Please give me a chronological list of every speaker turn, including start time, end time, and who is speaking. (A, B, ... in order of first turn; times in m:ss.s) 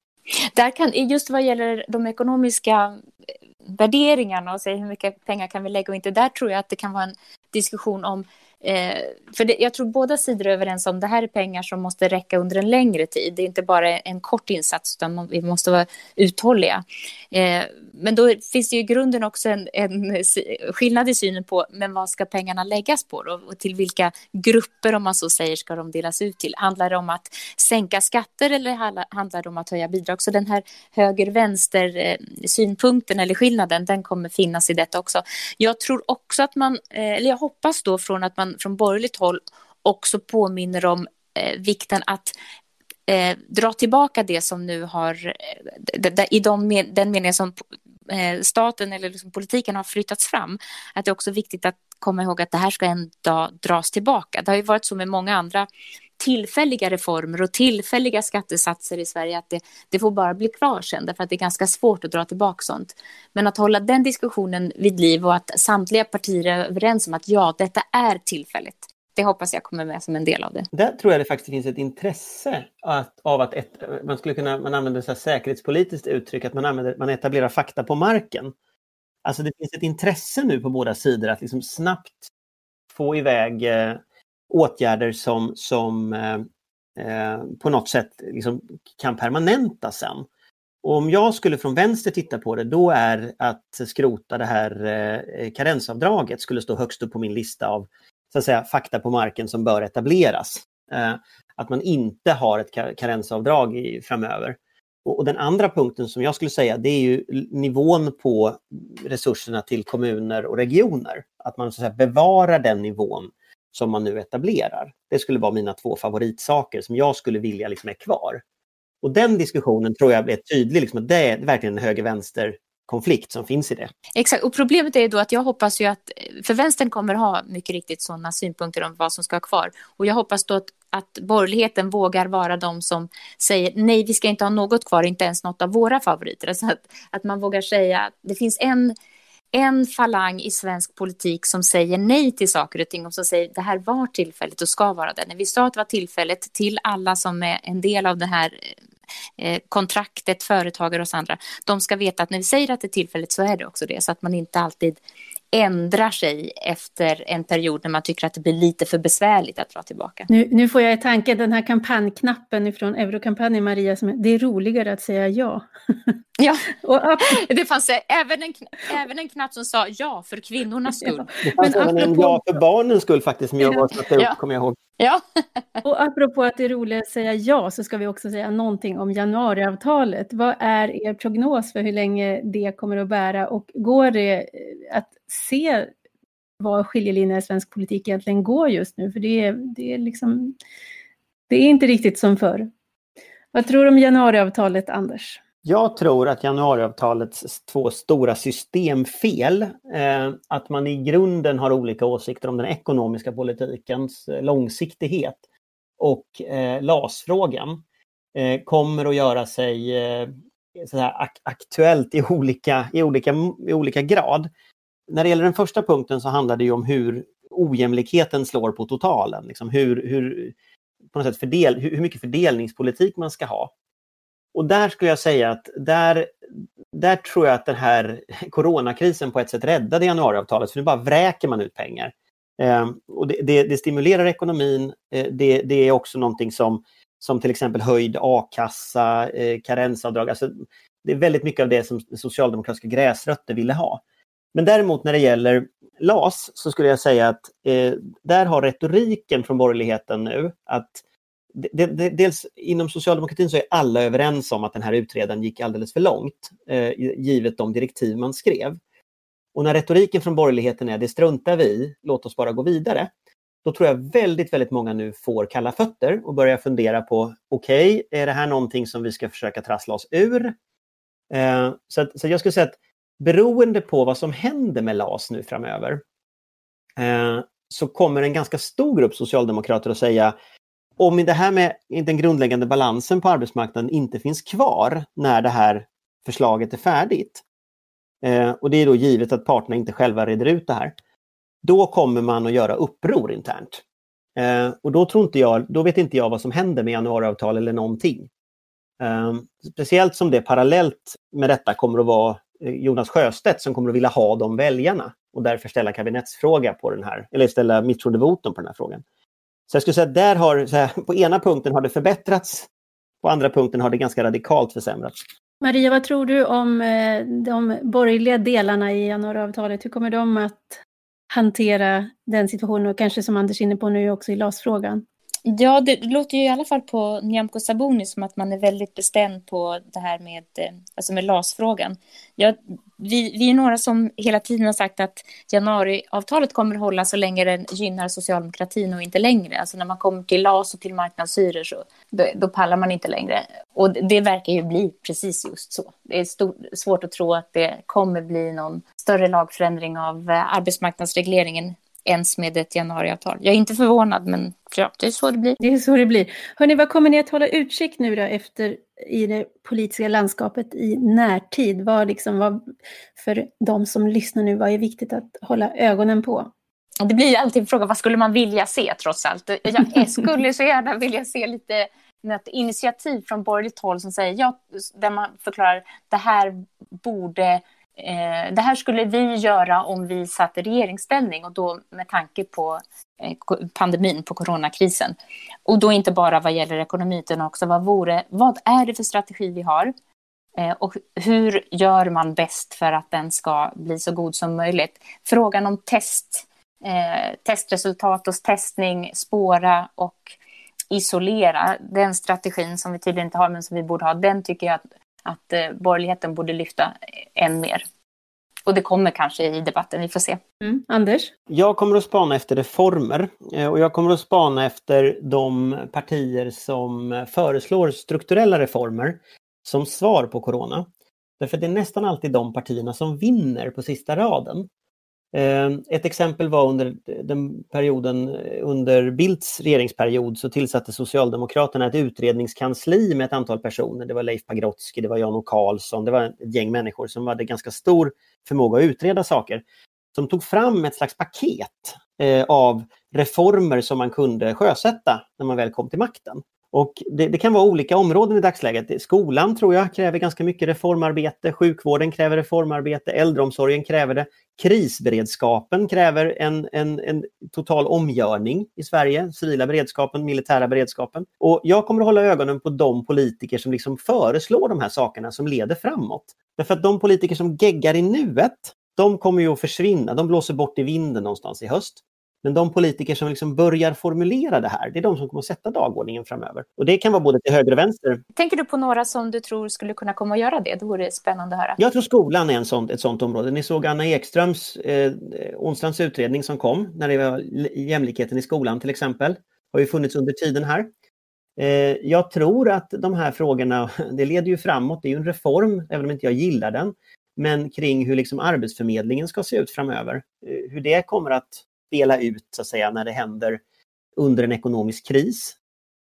0:00.4-0:03.0 A
0:03.7-0:42.3 A
0:43.1-0:47.5 A
0:48.1-0:55.7 A
0:56.2-1:10.7 A
1:10.7-1:18.5 B
1:19.2-1:22.3 B
1:22.9-1:30.3 B
1:30.8-1:58.4 B
1:59.0-2:03.9 B
2:04.2-2:18.9 A
2:19.5-2:28.7 A
2:29.4-2:35.0 A
2:35.5-2:40.3 A
2:40.3-2:46.1 C
2:46.4-2:46.7 A
2:46.8-2:47.4 C
2:47.2-2:51.3 A
2:51.0-2:52.4 C
2:51.4-2:54.8 B
2:53.6-2:54.4 A
2:55.0-2:55.8 A
2:55.8-3:05.9 C
3:06.6-3:10.5 C
3:11.5-3:12.7 C
3:13.5-3:15.4 C
3:15.6-3:25.4 B
3:26.0-3:27.8 B
3:28.3-3:34.5 B
3:35.1-3:40.6 B
3:41.1-3:43.7 B
3:44.5-3:46.4 B
3:46.9-4:04.0 B
4:04.5-4:11.0 B
4:11.5-4:18.8 B
4:19.6-4:23.1 B
4:23.6-4:30.5 B
4:31.3-4:36.0 B
4:37.0-4:40.3 B
4:41.0-4:47.4 B
4:48.2-4:50.9 B
4:51.6-4:53.8 B
4:54.4-4:58.3 B
4:59.0-5:09.0 B
5:09.7-5:12.7 B
5:13.2-5:15.2 B
5:15.6-5:25.0 C
5:25.5-5:55.6 A
5:55.6-6:02.6 C
6:03.2-6:06.5 C
6:07.0-6:29.9 A
6:30.6-6:40.4 A
6:40.9-6:47.8 A
6:48.7-6:50.4 A
6:50.6-6:51.3 C
6:51.5-7:00.9 B
7:01.4-7:04.7 B
7:05.3-7:58.2 B
7:58.4-8:01.8 A
8:01.8-8:10.9 B
8:11.6-8:23.6 B
8:24.2-8:25.6 B